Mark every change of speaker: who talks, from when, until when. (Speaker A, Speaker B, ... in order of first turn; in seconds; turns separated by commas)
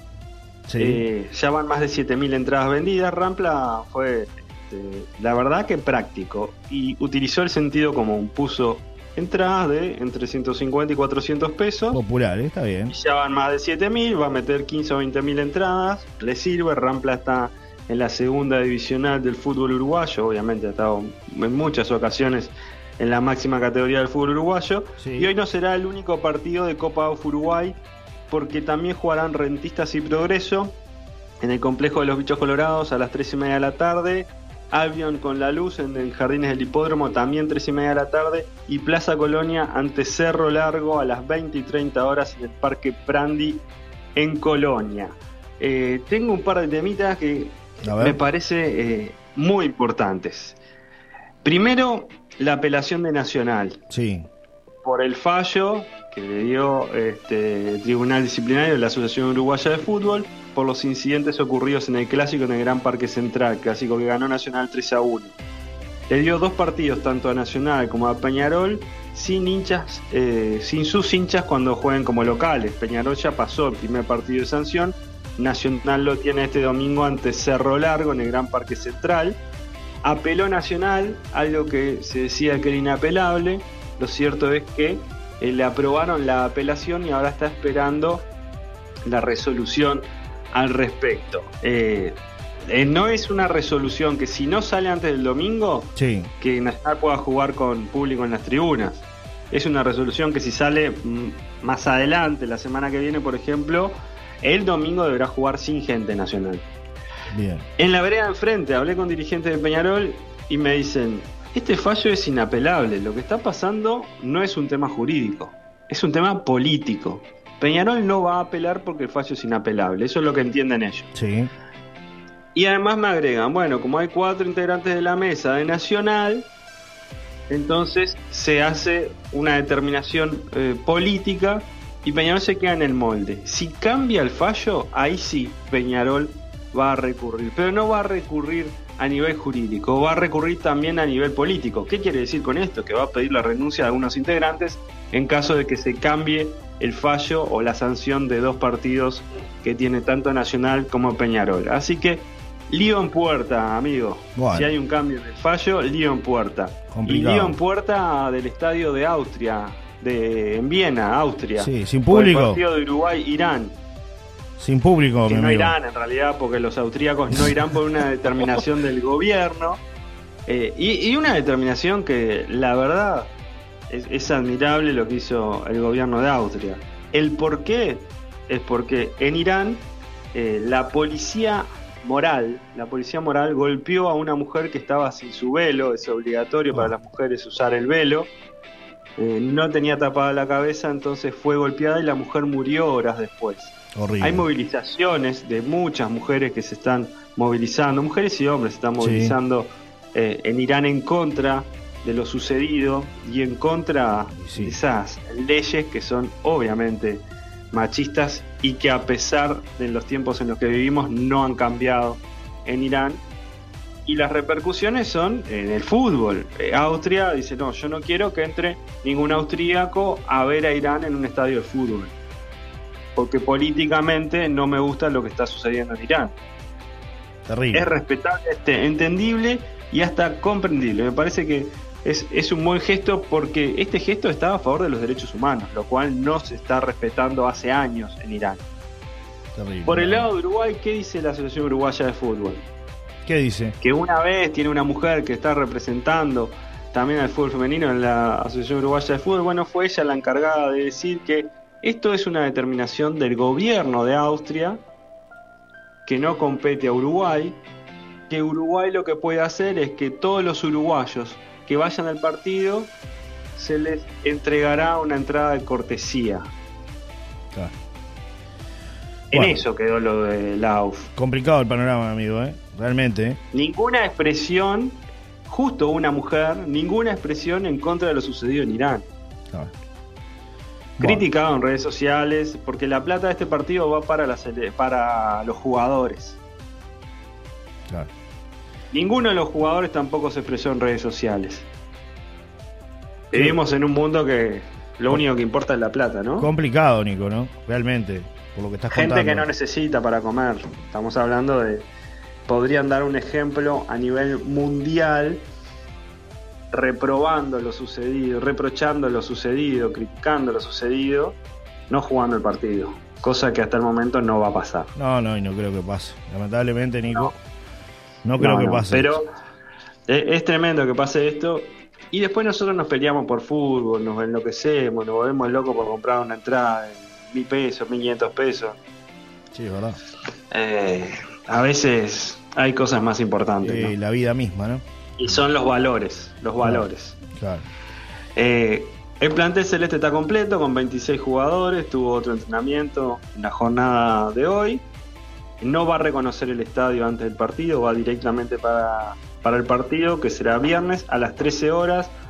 Speaker A: 0.7-1.1, Speaker B: 0.8-12.0, Speaker A: 11.9-12.9, Speaker B: 12.9-27.8, Speaker A: 25.0-25.3, Speaker B: 28.3-30.8, Speaker B: 31.4-43.6, Speaker B: 44.1-50.6, Speaker A: 47.8-48.2, Speaker B: 51.4-53.8, Speaker A: 53.9-54.3, Speaker B: 54.8-65.3, Speaker B: 66.1-79.4, Speaker B: 80.0-88.3, Speaker B: 89.1-92.2, Speaker B: 92.7-106.7, Speaker A: 96.0-96.3, Speaker A: 107.3-107.7, Speaker B: 107.8-121.1, Speaker A: 121.1-121.5, Speaker B: 122.5-126.5, Speaker B: 127.5-163.8, Speaker A: 154.4-154.7, Speaker A: 156.9-157.6, Speaker A: 161.6-162.6, Speaker A: 164.6-165.8, Speaker B: 165.3-169.8, Speaker B: 170.5-173.3, Speaker B: 173.9-188.3, Speaker B: 189.2-213.2, Speaker A: 193.9-194.5, Speaker A: 199.0-199.4, Speaker A: 204.3-204.8, Speaker B: 214.1-222.1, Speaker B: 223.2-226.3, Speaker A: 227.5-227.9, Speaker B: 227.7-238.6, Speaker A: 239.6-240.3, Speaker B: 239.9-242.6, Speaker A: 243.3-243.8, Speaker B: 243.8-254.8, Speaker B: 256.1-257.6, Speaker B: 258.3-262.9, Speaker B: 263.6-266.5, Speaker A: 269.3-269.6, Speaker B: 269.3-271.1, Speaker A: 271.2-273.4, Speaker B: 273.5-279.1, Speaker A: 281.0-281.2, Speaker B: 281.0-286.4, Speaker B: 288.9-291.7, Speaker B: 293.3-296.5, Speaker A: 296.4-299.5, Speaker B: 298.9-301.9, Speaker B: 302.5-305.4, Speaker B: 306.7-311.4, Speaker B: 311.9-314.9, Speaker A: 315.0-317.3, Speaker A: 318.2-319.2, Speaker B: 318.4-319.3, Speaker B: 320.1-328.8, Speaker A: 329.5-330.0, Speaker B: 330.5-333.9, Speaker A: 333.6-335.4, Speaker B: 335.2-337.2, Speaker A: 336.6-337.6, Speaker B: 338.4-344.9, Speaker B: 345.6-352.1